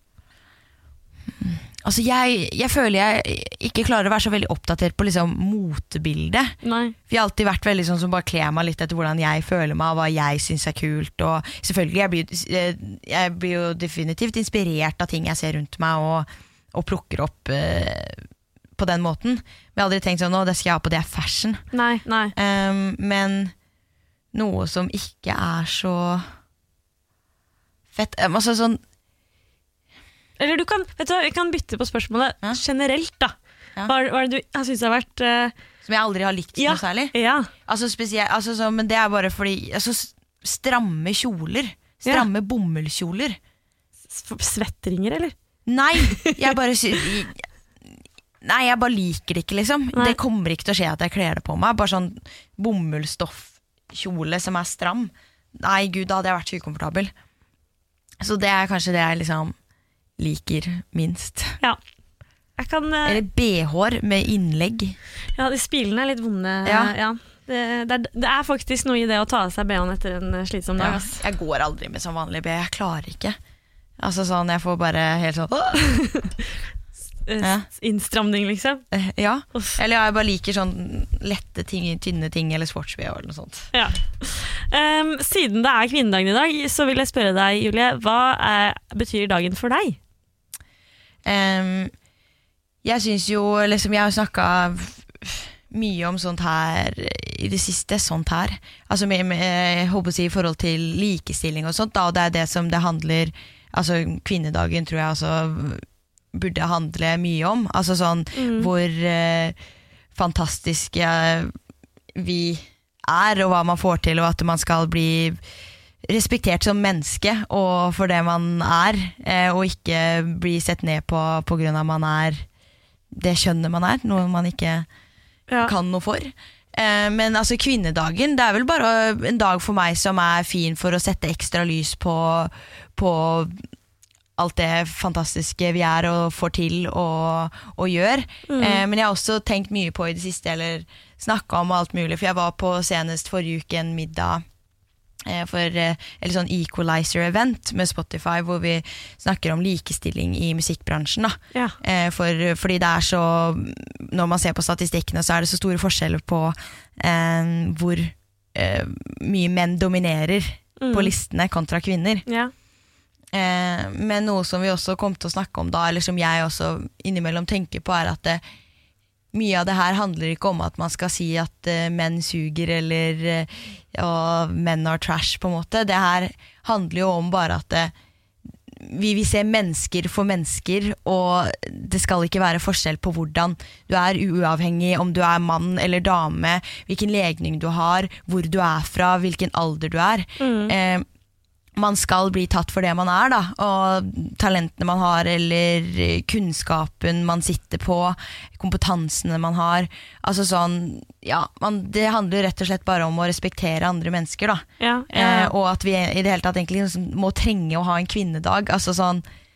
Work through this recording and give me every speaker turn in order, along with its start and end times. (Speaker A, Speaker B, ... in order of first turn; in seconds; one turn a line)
Speaker A: 1.4-6.5
Speaker B: 6.6-7.0
Speaker A: 7.1-18.2
Speaker A: 18.8-21.6
Speaker B: 21.7-22.3
Speaker A: 22.4-23.5
Speaker A: 24.3-26.3
Speaker A: 27.9-28.8
Speaker B: 30.4-33.4
Speaker B: 33.9-35.5
Speaker A: 35.8-37.1
Speaker B: 36.6-37.5
Speaker A: 37.7-43.4
Speaker B: 44.1-45.3
Speaker A: 45.7-47.4
Speaker B: 46.0-46.5
Speaker A: 48.4-57.1
Speaker B: 49.9-50.2
Speaker A: 58.2-59.5
Speaker A: 60.2-61.6
Speaker B: 62.6-63.2
Speaker A: 63.0-65.0
Speaker B: 65.4-71.2
Speaker A: 66.7-66.9
Speaker A: 70.8-73.4
Speaker A: 74.0-75.8
Speaker B: 75.8-76.4
Speaker B: 77.3-78.8
Speaker A: 77.4-77.7
Speaker A: 78.9-83.7
Speaker B: 83.7-90.0
Speaker A: 91.2-91.9
Speaker A: 92.8-109.6
Speaker B: 108.3-108.7
Speaker A: 110.2-111.5
Speaker A: 112.1-115.4
Speaker A: 116.0-122.5
Speaker A: 123.1-124.9
Speaker B: 125.5-125.7
Speaker A: 125.6-133.6
Speaker A: 134.4-144.4
Speaker B: 138.5-138.8
Speaker A: 145.3-162.2
Speaker B: 160.8-161.1
Speaker B: 162.3-162.5
Speaker A: 163.3-168.4
Speaker A: 169.3-177.9
Speaker A: 178.7-191.1
Speaker B: 190.4-190.8
Speaker A: 191.8-209.2
Speaker B: 204.8-205.5